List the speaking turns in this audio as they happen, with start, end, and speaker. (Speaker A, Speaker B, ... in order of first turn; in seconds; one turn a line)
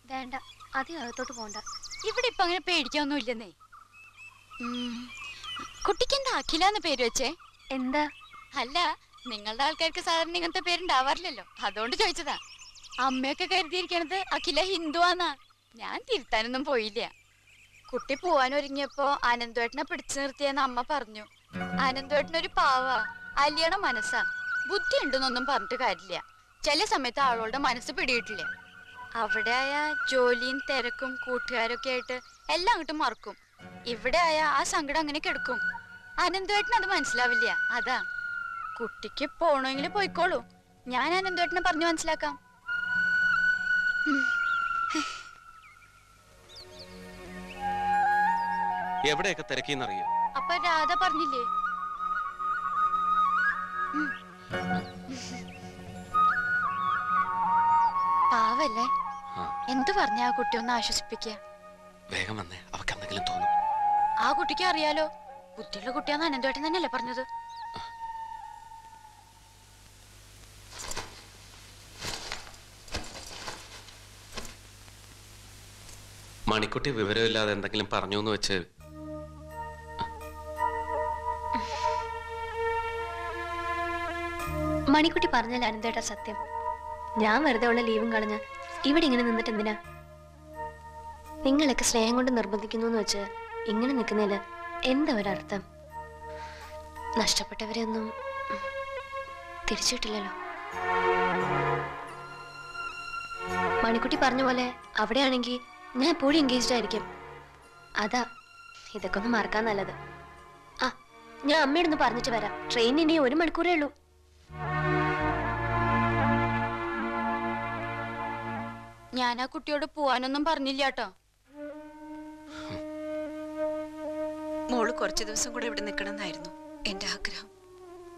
Speaker A: 0.1-1.6
Speaker B: 2.1-3.5
Speaker B: 4.6-5.1
Speaker B: 5.8-7.3
Speaker A: 7.8-8.0
Speaker B: 8.6-12.4
Speaker B: 13.0-17.1
Speaker B: 17.9-21.3
Speaker B: 21.8-28.5
Speaker B: 29.2-33.4
Speaker B: 33.9-35.6
Speaker B: 36.2-38.0
Speaker B: 38.8-42.4
Speaker C: 49.1-50.1
Speaker B: 50.4-51.4
Speaker B: 55.1-55.4
Speaker B: 58.3-58.9
Speaker B: 59.7-61.4
Speaker C: 62.1-63.5
Speaker B: 64.3-67.2
Speaker C: 76.5-78.6
Speaker A: 84.9-86.4
Speaker A: 87.2-89.7
Speaker A: 91.5-94.4
Speaker A: 94.9-95.6
Speaker A: 97.2-98.1
Speaker A: 99.7-100.3
Speaker A: 103.8-107.0
Speaker A: 109.0-109.9
Speaker A: 111.5-113.9
Speaker B: 119.2-121.1
Speaker D: 124.7-127.5